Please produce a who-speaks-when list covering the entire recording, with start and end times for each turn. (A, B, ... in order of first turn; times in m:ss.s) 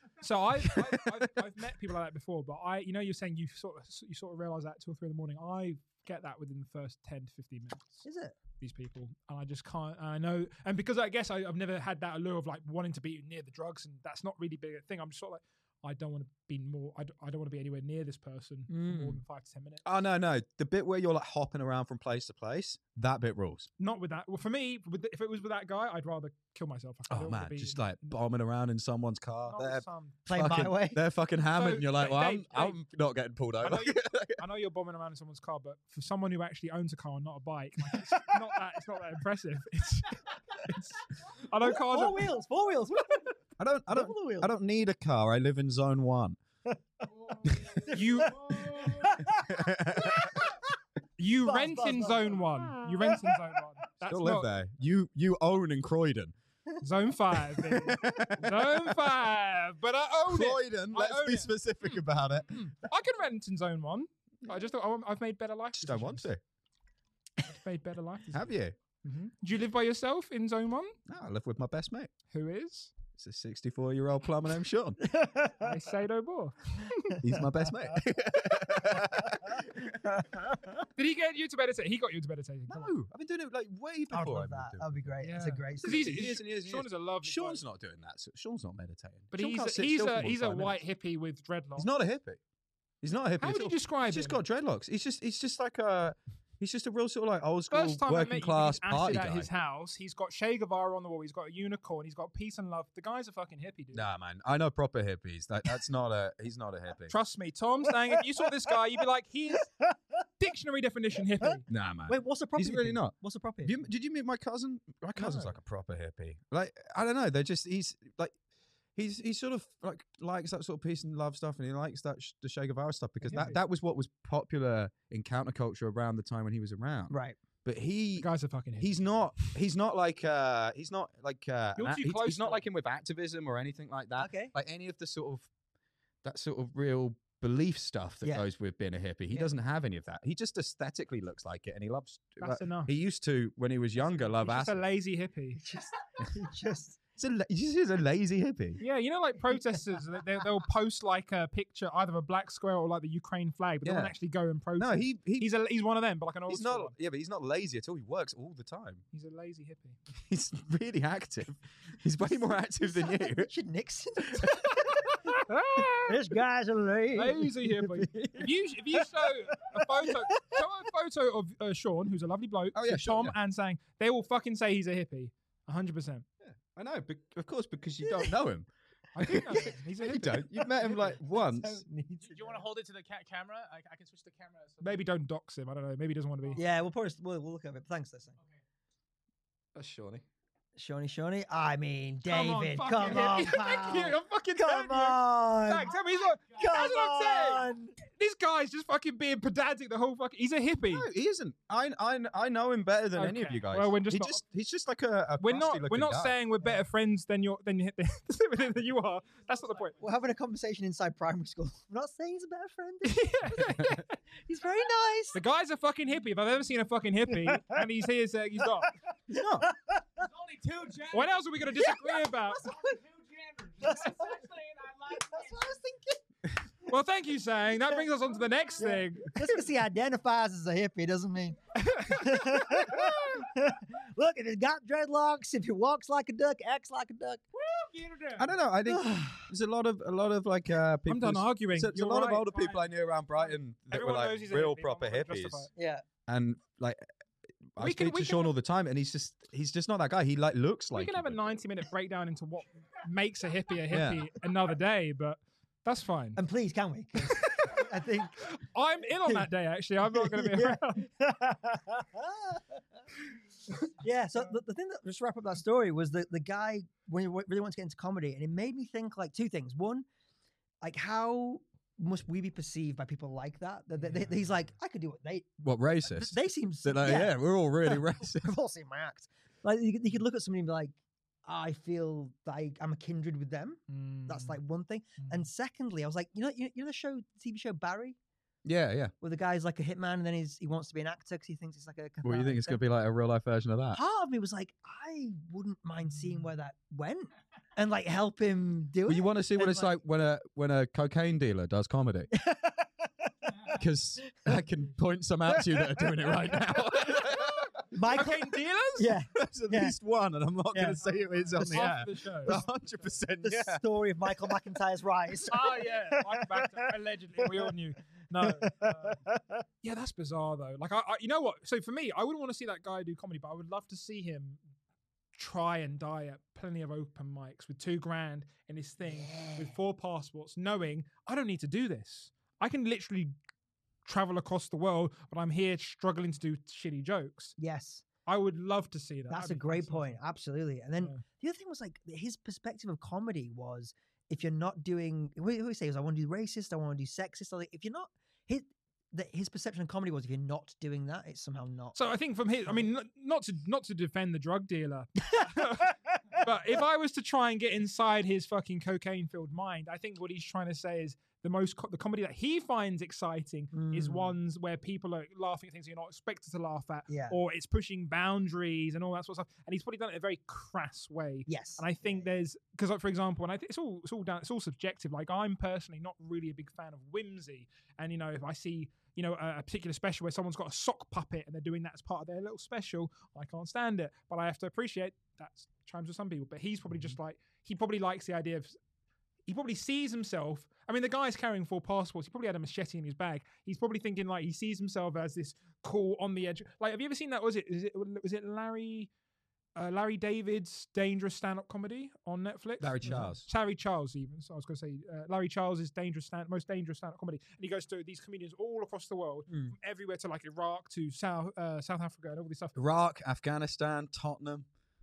0:00.2-0:08.0 A
0:00.6-0:01.0 B
0:08.0-0:08.3 C
0:08.6-0:19.8 A
0:18.7-0:19.2 C
0:19.8-0:23.7 B
0:23.8-0:28.2 A
0:27.1-0:34.4 B
0:29.4-0:30.2 A
0:30.3-0:31.0 C
0:31.5-0:32.8 A
0:33.6-0:42.3 A
0:38.1-0:38.4 C
0:41.6-0:43.4 C
0:43.6-0:46.4 B
0:43.9-0:44.5 C
0:46.6-0:50.8 C
0:47.2-0:49.1 D
0:47.9-0:48.6 A
0:49.2-0:50.4 B
0:51.2-0:54.6 A
0:51.4-0:53.6 C
0:54.0-0:56.3 B
0:56.8-1:02.0 A
0:57.6-0:59.0 B
0:57.8-0:58.2 C
1:00.3-1:02.6 B
1:02.5-1:06.3 A
1:05.8-1:06.4 B
1:07.4-1:08.5 A
1:08.3-1:08.8 B
1:09.0-1:11.0 A
1:11.1-1:12.1 B
1:12.3-1:12.9 A
1:13.2-1:15.0 B
1:15.0-1:15.8 C
1:15.6-1:17.2 A
1:17.2-1:20.9 C
1:17.2-1:20.1 B
1:21.0-1:22.9 A
1:22.7-1:25.1 B
1:24.1-1:26.2 C
1:25.2-1:27.6 A
1:25.8-1:30.8 B
1:29.3-1:31.9 A
1:31.8-1:32.4 B
1:33.0-1:39.5 B
1:33.4-1:34.4 A
1:37.7-1:44.0 A
1:43.9-1:47.1 B
1:47.1-1:49.7 A
1:49.7-1:50.0 C
1:50.4-1:51.6 A
1:51.7-1:58.3 B
1:52.1-1:53.8 C
1:55.2-1:55.5 A
1:59.0-2:15.5 B
2:03.2-2:03.6 A
2:07.1-2:07.4 C
2:08.2-2:09.5 A
2:11.8-2:12.6 A
2:14.2-2:14.5 C
2:16.2-2:24.8 B
2:22.4-2:22.9 A
2:24.0-2:25.6 A
2:25.6-2:27.0 C
2:27.2-2:28.8 B
2:28.8-2:36.9 A
2:33.8-2:34.1 B
2:34.8-2:35.5 B
2:36.5-2:39.0 B
2:39.1-2:40.0 A
2:40.3-2:43.5 B
2:42.9-2:45.4 C
2:45.2-2:46.2 A
2:46.0-2:50.6 C
2:47.1-2:56.2 A
2:52.7-2:53.3 B
2:56.4-2:58.7 B
2:58.0-2:58.4 C
2:59.1-3:00.4 A
2:59.2-3:01.8 B
3:00.5-3:02.7 C
3:02.2-3:05.0 D
3:04.8-3:06.6 A
3:06.6-3:08.4 C
3:08.4-3:08.6 D
3:09.7-3:10.2 B
3:10.8-3:15.9 C
3:12.3-3:21.1 A
3:15.8-3:16.8 D
3:16.5-3:18.0 C
3:20.9-3:26.4 B
3:23.1-3:24.4 A
3:25.4-3:30.0 A
3:29.2-3:30.2 D
3:30.0-3:35.4 C
3:33.0-3:34.2 A
3:35.3-3:38.9 A
3:37.3-3:37.8 C
3:39.3-3:40.2 C
3:39.3-3:39.7 B
3:40.2-3:45.8 D
3:41.1-3:42.7 A
3:41.8-3:42.9 C
3:43.8-3:44.4 C
3:45.1-3:46.2 C
3:46.9-3:49.5 A
3:48.8-3:57.4 C
3:51.7-3:53.2 A
3:57.5-3:58.6 D
3:58.4-4:05.7 B
3:58.8-3:59.5 C
4:01.1-4:05.7 A
4:05.7-4:06.0 C
4:06.3-4:07.0 B
4:07.7-4:11.4 B
4:07.8-4:08.5 A
4:10.9-4:16.4 A
4:13.9-4:14.3 B
4:16.4-4:18.5 C
4:17.2-4:17.8 A
4:18.4-4:21.0 A
4:20.1-4:23.0 C
4:23.6-4:30.1 C
4:30.8-4:35.5 C
4:34.0-4:34.4 A
4:35.6-4:38.5 B
4:36.0-4:48.2 C
4:43.9-4:44.6 A
4:45.2-4:45.4 A
4:48.6-4:49.1 B
4:49.2-4:52.8 C
4:52.2-4:54.0 B
4:53.9-5:00.0 C
4:59.0-5:02.3 B
5:02.3-5:03.8 C
5:03.7-5:07.7 B
5:05.5-5:06.8 C
5:07.2-5:09.2 A
5:07.9-5:09.9 C
5:09.3-5:13.8 B
5:10.7-5:12.6 C
5:11.5-5:12.6 A
5:13.4-5:17.7 C
5:15.5-5:19.2 A
5:18.4-5:19.6 C
5:19.8-5:24.6 A
5:25.3-5:33.3 A
5:29.2-5:29.7 C
5:34.0-5:37.6 A
5:37.6-5:38.0 C
5:38.2-5:40.2 A
5:39.3-5:52.0 C
5:51.9-6:28.8 A
6:03.7-6:04.3 C
6:07.1-6:07.4 C
6:11.5-6:12.3 C
6:29.5-6:39.1 A
6:39.7-6:52.8 A
6:42.8-6:43.5 B
6:43.0-6:43.3 C
6:49.5-6:49.7 C
6:52.8-6:54.7 B